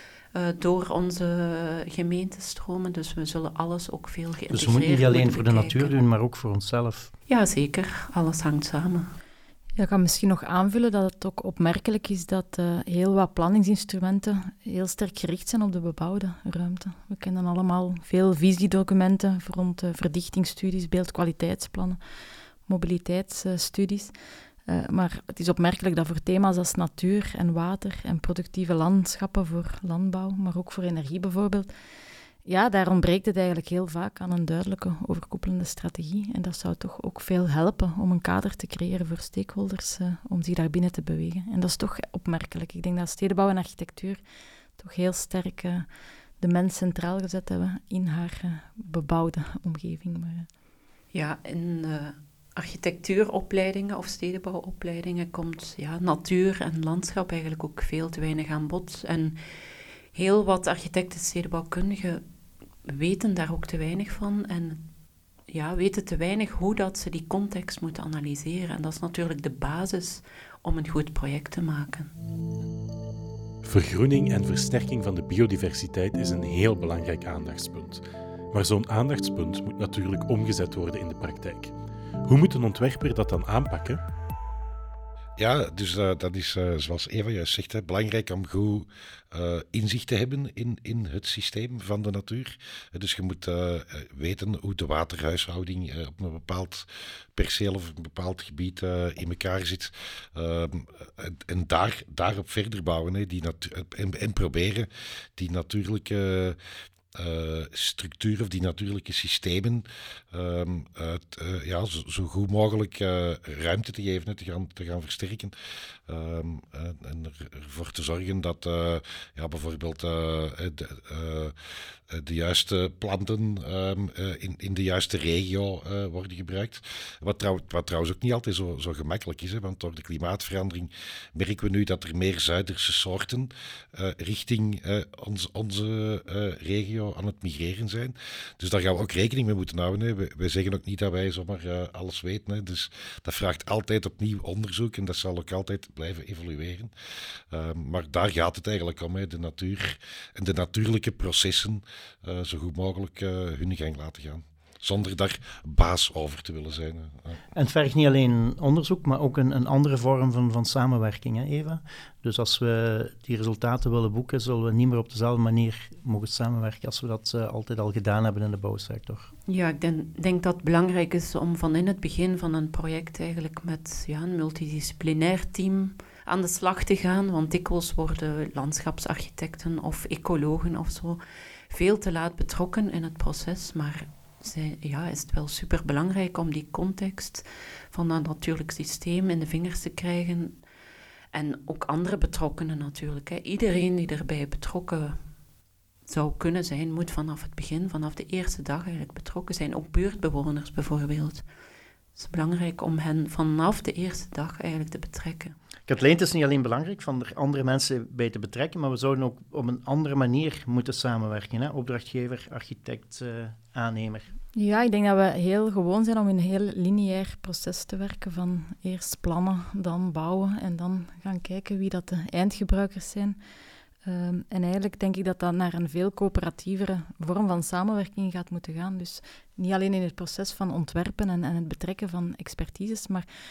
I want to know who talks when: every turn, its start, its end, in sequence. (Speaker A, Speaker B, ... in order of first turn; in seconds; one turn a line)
Speaker A: 0.3-5.9
Speaker B: 4.5-7.1
Speaker A: 7.3-9.1
Speaker C: 9.8-22.0
Speaker C: 22.6-24.1
Speaker C: 24.6-31.7
Speaker C: 32.4-44.2
Speaker C: 44.8-45.9
Speaker C: 46.4-50.5
Speaker A: 51.1-59.4
Speaker A: 60.1-62.2
Speaker A: 62.9-64.8
Speaker A: 65.5-72.1
Speaker D: 73.6-81.7
Speaker D: 82.2-84.0
Speaker E: 85.4-106.6
Speaker E: 107.1-115.5
Speaker E: 116.1-121.5
Speaker E: 122.1-146.9
Speaker E: 147.5-157.4
Speaker B: 157.6-169.3
Speaker A: 169.5-190.6
Speaker A: 191.3-195.2
Speaker A: 196.1-201.4
Speaker A: 202.2-205.6
Speaker B: 205.9-214.3
Speaker C: 214.6-223.4
Speaker C: 224.1-233.2